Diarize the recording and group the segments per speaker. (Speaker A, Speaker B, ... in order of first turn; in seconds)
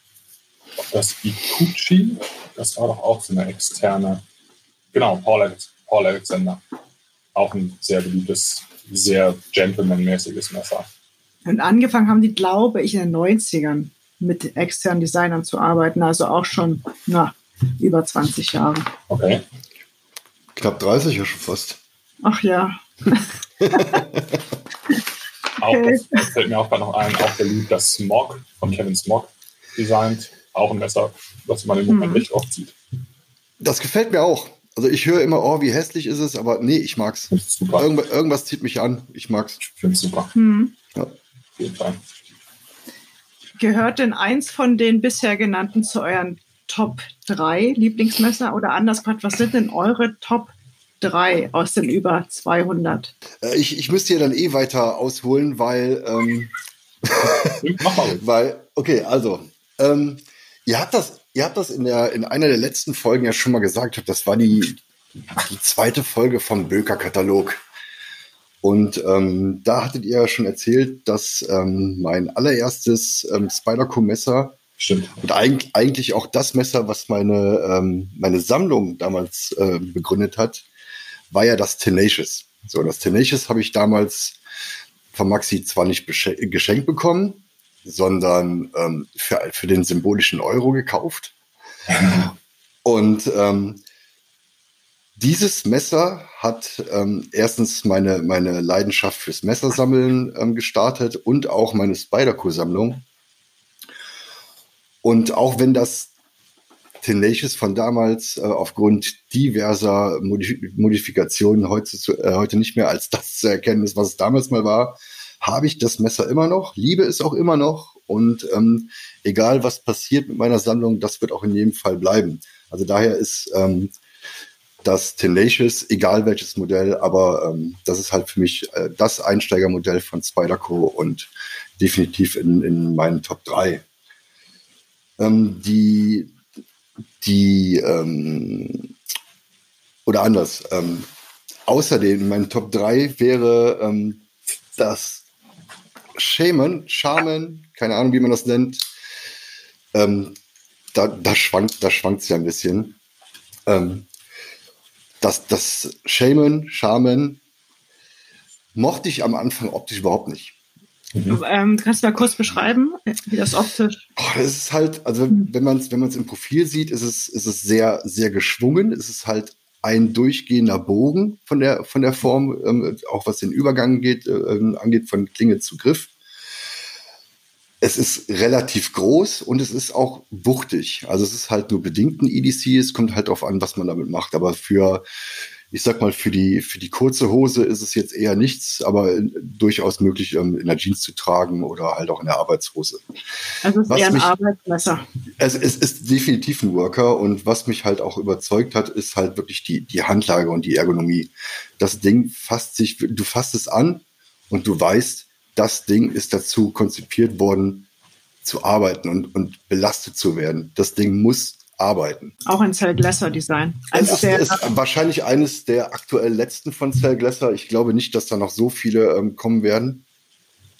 Speaker A: 0.9-4.2, 4.9-6.6, 7.3-10.9, 19.1-19.4, 25.6-32.7, 37.3-37.9, 39.6-40.3, 41.6-42.0, 57.4-58.2, 74.8-75.2, 161.1-161.4
Speaker B: 11.4-18.9, 22.2-24.0, 25.7-26.1, 31.9-32.2, 40.3-40.7, 43.6-53.1, 161.3-164.0, 193.6-195.0, 212.4-214.7
Speaker C: 20.6-21.8, 23.6-24.4, 33.6-39.6, 53.4-56.5, 57.0-57.6, 58.2-64.8, 65.5-67.6, 68.6-74.6, 75.2-80.6, 81.3-84.4, 85.1-91.3, 92.0-92.3, 92.8-93.8, 95.2-103.0, 105.0-106.1, 107.0-123.9, 124.8-133.8, 135.2-136.3, 137.2-138.9, 140.1-141.1, 141.7-144.2, 144.8-145.2, 146.2-148.8, 149.9-150.3, 150.9-152.9, 153.7-154.1, 155.2-157.4, 158.7-160.5, 164.2-176.1, 177.8-185.0, 185.7-193.0, 193.9-194.3, 195.4-207.8, 208.4-212.3, 213.9-220.0